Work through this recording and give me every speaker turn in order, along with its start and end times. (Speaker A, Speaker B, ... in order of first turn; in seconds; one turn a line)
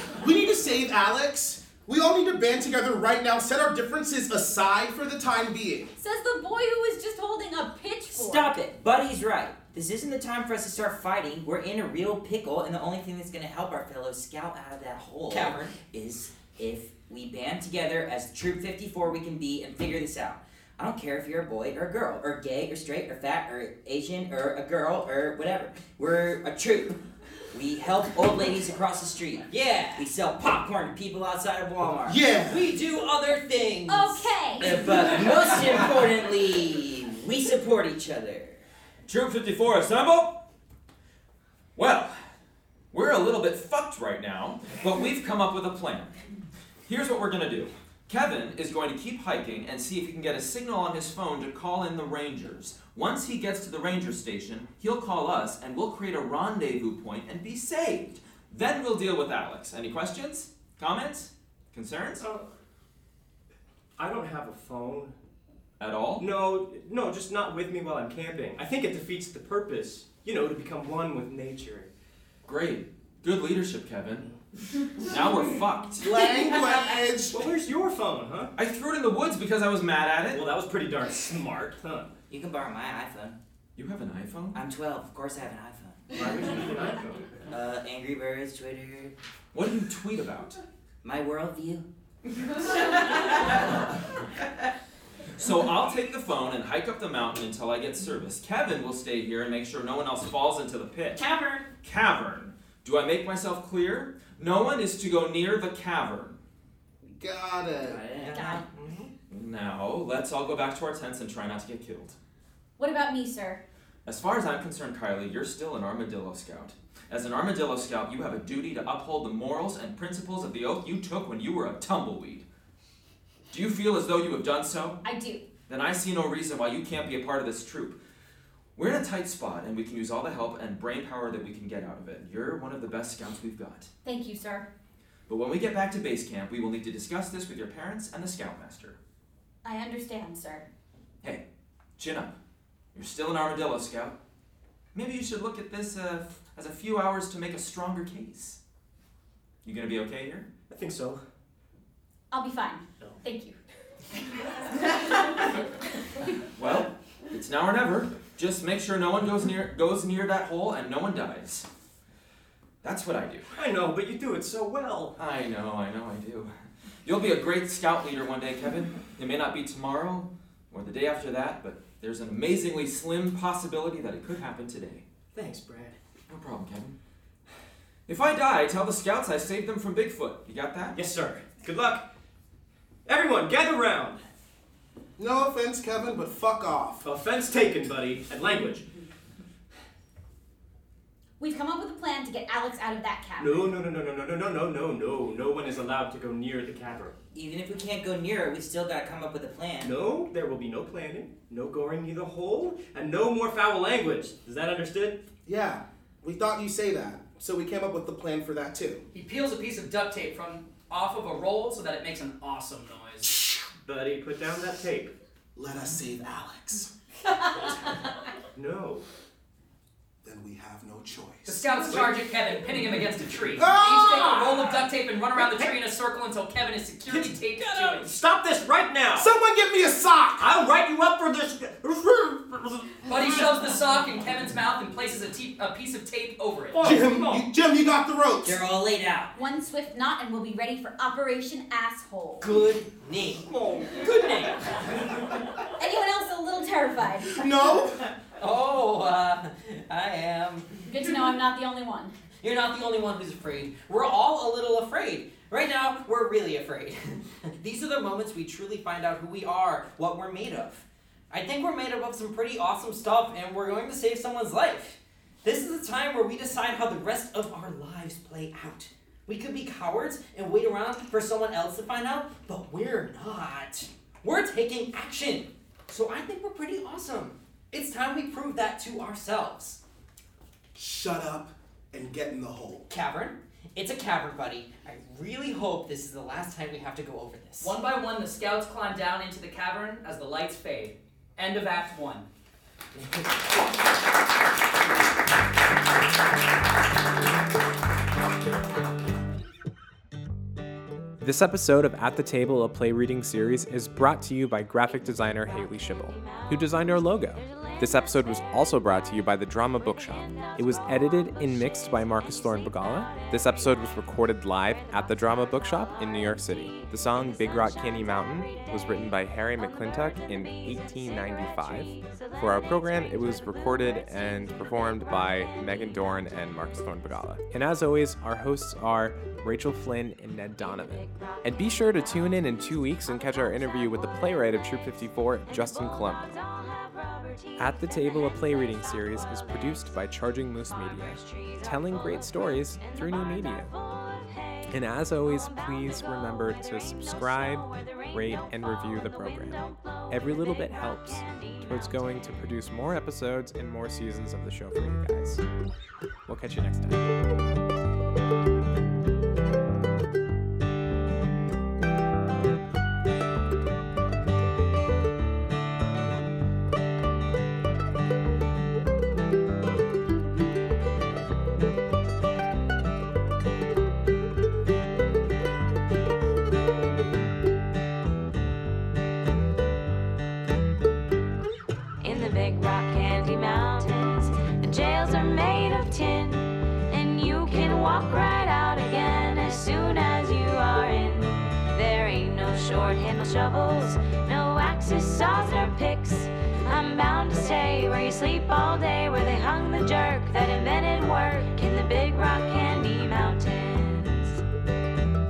Speaker A: 0.1-5.9
Speaker B: 6.0-8.5
Speaker C: 8.1-27.0
Speaker D: 15.3-15.8
Speaker C: 27.5-32.3
Speaker D: 29.5-30.1
Speaker A: 32.0-32.7
Speaker D: 32.4-34.9
Speaker B: 33.9-34.7
Speaker C: 34.5-38.6
Speaker E: 39.1-40.4
Speaker E: 41.8-42.2
Speaker E: 42.9-46.1
Speaker E: 46.9-62.3
Speaker F: 62.2-62.5
Speaker F: 64.0-65.1
Speaker E: 65.8-66.2
Speaker F: 66.2-71.9
Speaker E: 72.4-74.3
Speaker E: 75.0-76.0
Speaker A: 76.0-77.4
Speaker F: 77.3-78.5
Speaker E: 78.5-80.5
Speaker F: 80.3-82.1
Speaker C: 82.3-83.4
Speaker E: 83.7-84.6
Speaker C: 84.5-86.1
Speaker F: 86.1-87.4
Speaker C: 87.5-89.1
Speaker E: 89.5-90.6
Speaker C: 91.0-91.8
Speaker E: 95.4-101.2
Speaker D: 101.2-101.7
Speaker E: 101.8-106.4
Speaker A: 107.0-108.0
Speaker C: 107.8-108.6
Speaker D: 108.2-108.6
Speaker B: 108.3-108.6
Speaker E: 109.3-112.2
Speaker B: 112.8-113.6
Speaker E: 114.0-122.5
Speaker E: 123.5-125.0
Speaker B: 125.0-125.5
Speaker E: 125.7-128.0
Speaker E: 128.7-133.9
Speaker B: 134.0-134.7
Speaker E: 135.3-139.0
Speaker B: 139.6-140.7
Speaker E: 142.0-142.3
Speaker E: 142.9-144.2
Speaker E: 144.9-148.6
Speaker E: 149.6-150.5
Speaker F: 150.7-151.2
Speaker B: 152.3-153.6
Speaker E: 156.6-161.7
Speaker E: 162.8-163.5
Speaker F: 163.5-165.2
Speaker E: 165.2-166.5
Speaker E: 167.0-175.0
Speaker F: 175.3-175.9
Speaker E: 176.3-176.9
Speaker E: 178.1-181.0
Speaker F: 180.9-182.0
Speaker F: 183.1-184.2
Speaker A: 185.2-187.0
Speaker F: 187.0-188.9
Speaker B: 191.4-193.8
Speaker F: 193.4-197.1
Speaker C: 197.3-199.9
Speaker F: 199.8-205.2
Speaker A: 205.4-209.0
Speaker G: 209.1-213.4
Speaker F: 213.8-215.1
Speaker A: 215.6-216.9
Speaker F: 218.5-219.0
Speaker A: 220.2-221.6
Speaker G: 221.4-228.1
Speaker F: 221.6-222.2
Speaker A: 223.6-224.7
Speaker F: 225.3-225.8
Speaker F: 227.1-229.3
Speaker A: 229.2-230.5
Speaker F: 230.4-233.8
Speaker G: 233.0-236.8
Speaker F: 236.7-237.5
Speaker A: 236.8-238.6
Speaker C: 238.4-239.3
Speaker B: 239.3-242.5
Speaker D: 242.4-244.7
Speaker F: 243.5-244.0
Speaker B: 245.8-247.4
Speaker A: 247.3-248.0
Speaker D: 248.4-250.8
Speaker B: 250.9-252.1
Speaker D: 252.4-279.8
Speaker A: 280.7-282.9
Speaker D: 282.9-287.7
Speaker G: 287.6-292.3
Speaker H: 301.2-336.3
Speaker I: 305.4-308.5
Speaker I: 309.9-313.9
Speaker I: 314.7-326.4
Speaker I: 330.6-332.4
Speaker I: 333.1-334.2
Speaker I: 335.5-340.0
Speaker H: 337.6-343.8
Speaker I: 340.6-352.3
Speaker H: 344.7-355.4
Speaker H: 356.3-357.0
Speaker I: 382.0-404.4